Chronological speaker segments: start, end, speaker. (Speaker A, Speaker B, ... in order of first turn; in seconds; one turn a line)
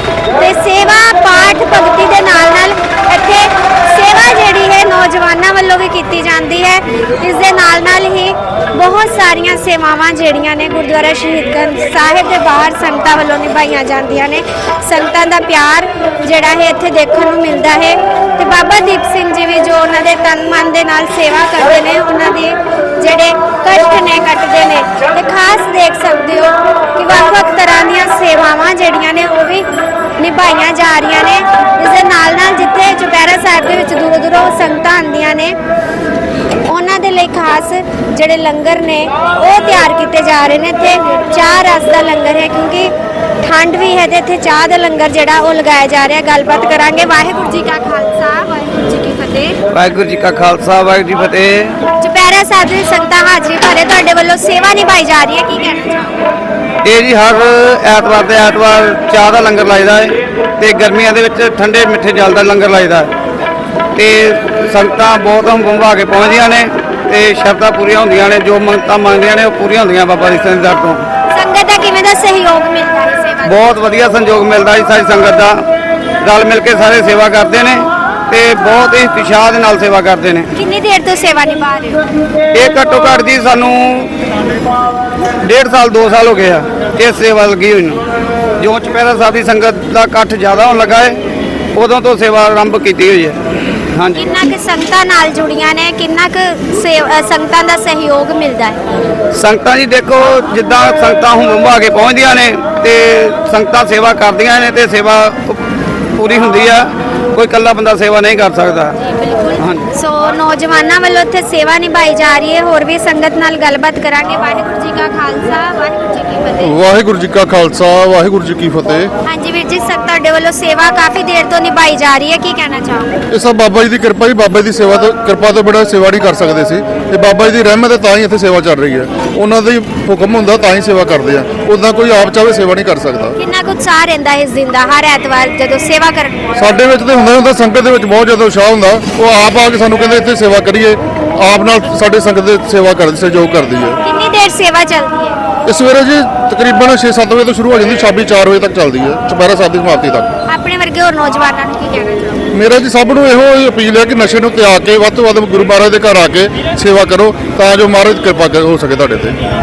Speaker A: 0.3-29.7
Speaker A: 30.2-35.5
Speaker A: 36.7-49.6
Speaker B: 49.7-51.8
Speaker A: 52.0-56.3
Speaker B: 56.8-63.1
Speaker B: 64.0-71.0
Speaker A: 71.3-73.7
Speaker B: 73.5-75.6
Speaker B: 76.2-80.5
Speaker A: 80.5-82.0
Speaker B: 82.5-84.1
Speaker B: 85.4-88.0
Speaker B: 88.6-91.2
Speaker B: 91.8-93.4
Speaker B: 94.0-94.3
Speaker A: 94.2-98.8
Speaker B: 99.3-105.6
Speaker B: 106.2-108.9
Speaker A: 109.0-116.8
Speaker B: 109.6-109.8
Speaker C: 116.6-119.1
Speaker A: 119.3-123.1
Speaker C: 123.3-133.4
Speaker A: 133.4-136.7
Speaker C: 136.6-144.0
Speaker A: 144.0-145.4
Speaker C: 145.7-150.3
Speaker A: 150.5-152.5
Speaker C: 152.5-159.4